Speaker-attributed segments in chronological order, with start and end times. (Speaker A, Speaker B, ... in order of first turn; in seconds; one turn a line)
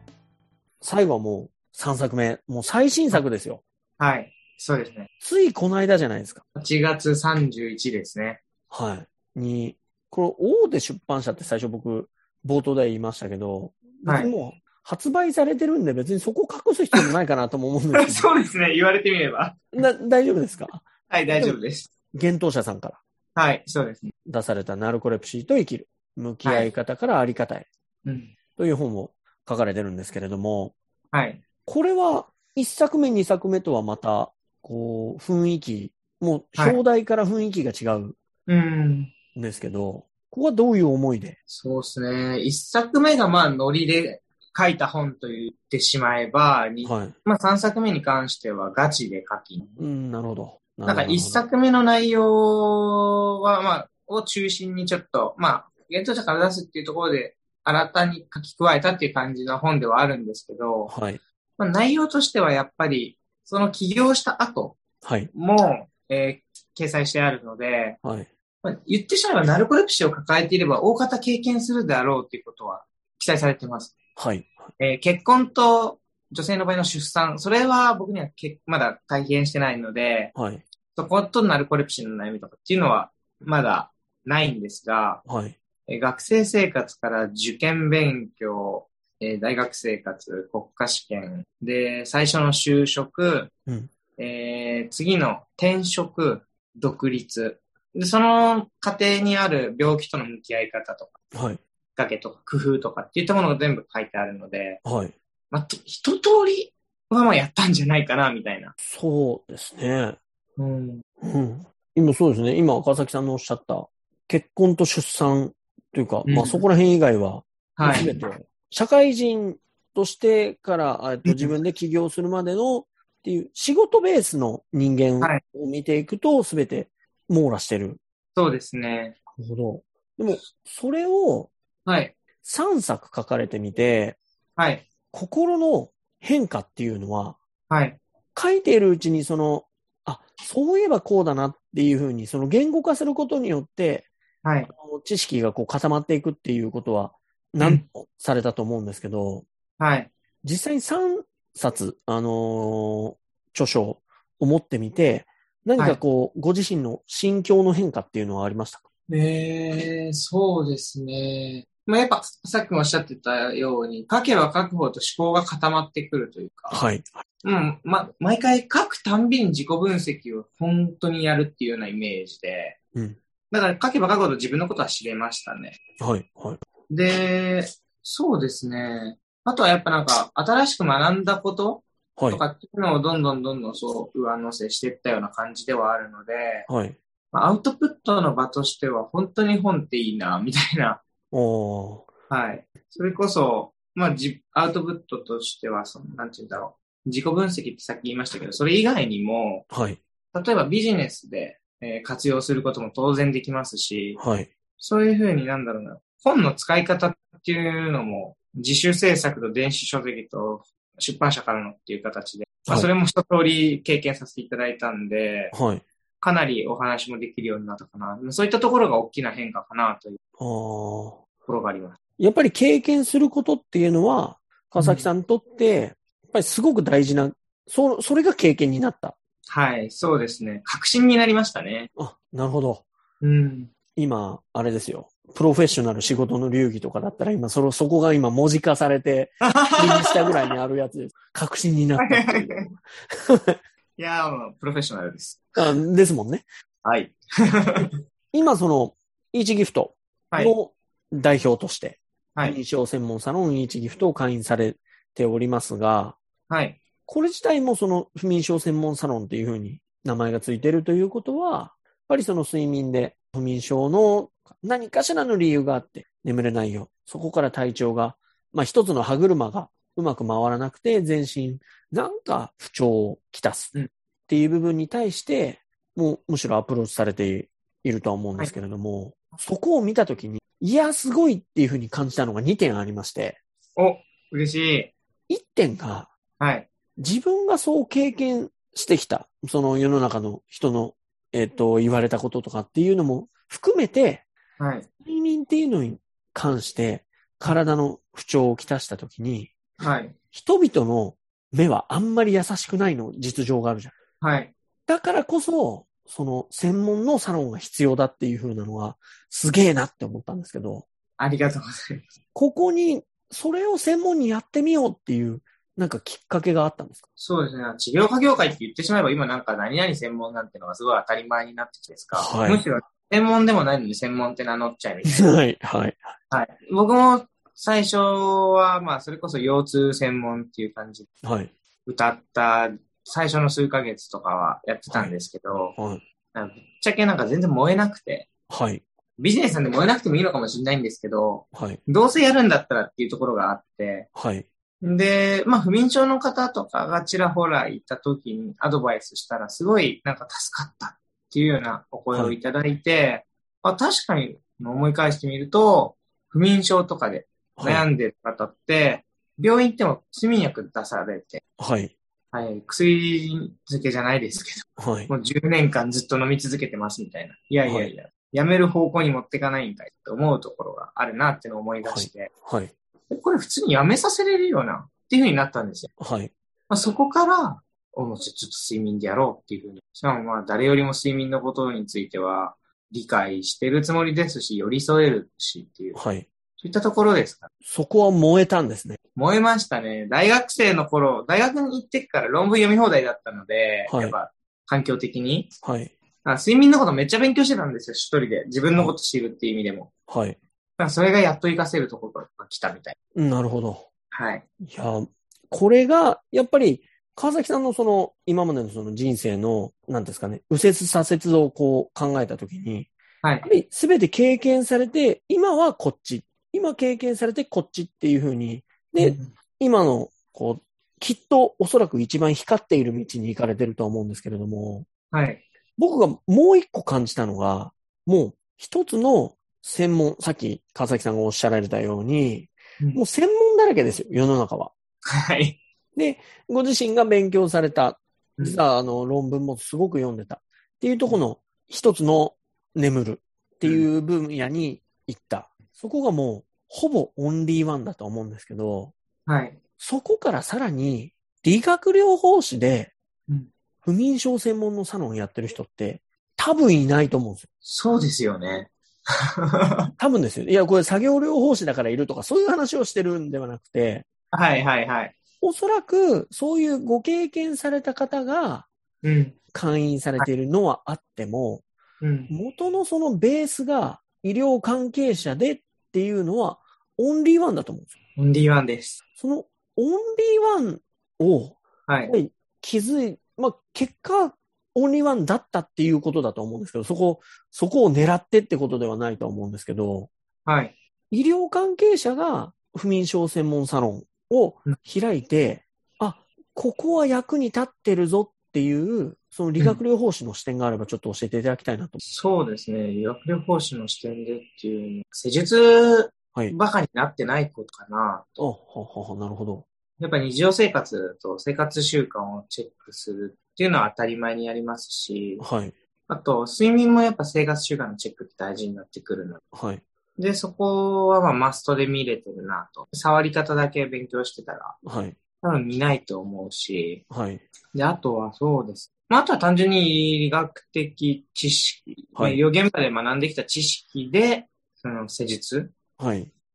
Speaker A: 0.8-3.6
Speaker B: 4.0-5.1
Speaker A: 5.2-6.4
Speaker B: 6.5-8.4
Speaker A: 8.7-18.3
Speaker B: 14.1-14.3
Speaker B: 17.9-19.8
Speaker A: 19.7-21.6
Speaker B: 21.1-21.9
Speaker A: 22.1-23.0
Speaker B: 23.4-24.1
Speaker A: 24.2-27.7
Speaker B: 26.4-26.7
Speaker B: 28.0-28.3
Speaker A: 28.6-30.8
Speaker B: 31.1-31.4
Speaker A: 31.6-38.2
Speaker B: 38.5-39.1
Speaker A: 39.3-41.4
Speaker B: 41.5-49.9
Speaker A: 46.8-47.1
Speaker A: 49.8-51.4
Speaker B: 50.9-60.9
Speaker A: 60.9-61.2
Speaker B: 61.6-64.8
Speaker A: 65.0-65.3
Speaker B: 65.3-68.0
Speaker A: 68.0-68.3
Speaker B: 68.6-73.9
Speaker A: 74.2-74.7
Speaker B: 74.8-80.3
Speaker A: 80.3-80.6
Speaker B: 81.0-85.2
Speaker A: 85.2-85.5
Speaker B: 85.9-93.5
Speaker B: 94.2-101.2
Speaker A: 101.3-101.6
Speaker B: 102.0-104.8
Speaker A: 104.8-105.1
Speaker B: 105.5-108.7
Speaker A: 108.8-110.2
Speaker B: 110.6-111.0
Speaker A: 111.2-128.0
Speaker B: 116.2-116.6
Speaker B: 117.8-118.2
Speaker B: 121.2-121.5
Speaker B: 128.3-129.2
Speaker A: 129.4-131.5
Speaker B: 131.8-132.1
Speaker A: 132.4-134.2
Speaker B: 134.6-134.8
Speaker A: 135.1-137.4
Speaker B: 137.7-138.0
Speaker A: 138.3-144.1
Speaker B: 144.4-144.7
Speaker A: 144.7-149.4
Speaker B: 149.8-150.1
Speaker A: 150.4-158.8
Speaker B: 159.1-166.8
Speaker A: 166.7-167.2
Speaker B: 167.4-172.8
Speaker B: 173.5-175.8
Speaker A: 176.0-176.6
Speaker B: 176.9-186.7
Speaker A: 182.2-182.4
Speaker A: 186.7-187.0
Speaker B: 187.3-191.0
Speaker A: 191.3-192.1
Speaker B: 192.3-199.7
Speaker A: 199.7-200.0
Speaker B: 200.3-204.2
Speaker A: 204.2-204.5
Speaker B: 204.8-215.5
Speaker A: 215.5-215.8
Speaker B: 216.2-220.2
Speaker A: 220.4-221.2
Speaker B: 221.4-222.0
Speaker A: 222.2-229.2
Speaker B: 224.8-225.1
Speaker B: 229.5-231.9
Speaker A: 232.0-232.8
Speaker B: 233.2-233.7
Speaker A: 233.9-243.6
Speaker B: 239.4-240.5
Speaker B: 242.0-242.6
Speaker B: 244.0-245.6
Speaker A: 245.6-246.4
Speaker B: 246.8-247.9
Speaker A: 248.3-256.2
Speaker B: 256.5-256.8
Speaker A: 257.1-273.7
Speaker A: 274.3-283.4
Speaker B: 283.8-284.9
Speaker A: 285.3-286.1
Speaker B: 286.4-286.7
Speaker A: 287.0-294.2
Speaker B: 294.6-294.9
Speaker A: 295.0-299.8
Speaker B: 299.8-300.1
Speaker A: 300.3-303.9
Speaker B: 304.2-304.5
Speaker A: 304.9-310.9
Speaker B: 311.2-312.1
Speaker A: 312.3-317.0
Speaker B: 317.2-325.4
Speaker A: 322.1-322.6
Speaker A: 325.0-326.1
Speaker B: 326.3-331.1
Speaker A: 331.2-331.5
Speaker B: 331.9-335.7
Speaker A: 334.9-335.1
Speaker A: 335.8-336.0
Speaker B: 336.3-338.3
Speaker A: 338.5-338.8
Speaker B: 339.2-344.1
Speaker A: 341.5-341.8
Speaker A: 344.1-344.5
Speaker B: 344.8-361.4
Speaker A: 357.6-357.9
Speaker A: 361.6-361.9
Speaker B: 362.3-372.3
Speaker A: 364.8-365.1
Speaker A: 367.6-367.9
Speaker A: 371.8-372.7
Speaker B: 373.1-375.9
Speaker A: 376.0-376.3
Speaker B: 376.7-386.0
Speaker A: 385.9-386.3
Speaker B: 386.6-387.5
Speaker A: 387.6-389.0
Speaker B: 389.1-395.5
Speaker A: 393.9-394.1
Speaker A: 395.6-395.9
Speaker B: 396.2-399.9
Speaker A: 400.1-400.4
Speaker B: 400.8-402.9
Speaker A: 403.1-403.9
Speaker B: 404.1-404.4
Speaker A: 404.6-412.9
Speaker B: 413.2-413.5
Speaker A: 413.4-424.9
Speaker B: 419.0-419.3
Speaker B: 425.1-425.4
Speaker A: 425.8-434.7
Speaker B: 435.2-435.6
Speaker A: 435.9-448.9
Speaker B: 449.3-449.6
Speaker A: 449.8-452.9
Speaker A: 453.8-457.5
Speaker B: 457.6-458.7
Speaker B: 459.5-459.9
Speaker A: 460.0-464.1
Speaker B: 464.3-465.1
Speaker A: 465.4-468.7
Speaker B: 469.0-469.3
Speaker A: 469.5-471.6
Speaker B: 472.0-472.3
Speaker A: 472.3-477.9
Speaker B: 478.2-479.0
Speaker A: 479.2-490.1
Speaker B: 481.9-482.1
Speaker B: 490.4-490.7
Speaker A: 491.1-502.0
Speaker B: 502.0-508.4
Speaker A: 508.4-509.7
Speaker B: 510.0-515.4
Speaker A: 515.4-515.7
Speaker B: 516.1-519.4
Speaker A: 519.5-519.8
Speaker B: 520.2-524.8
Speaker A: 524.8-525.2
Speaker B: 525.4-527.0
Speaker A: 527.1-527.4
Speaker B: 527.7-535.7
Speaker A: 536.0-536.3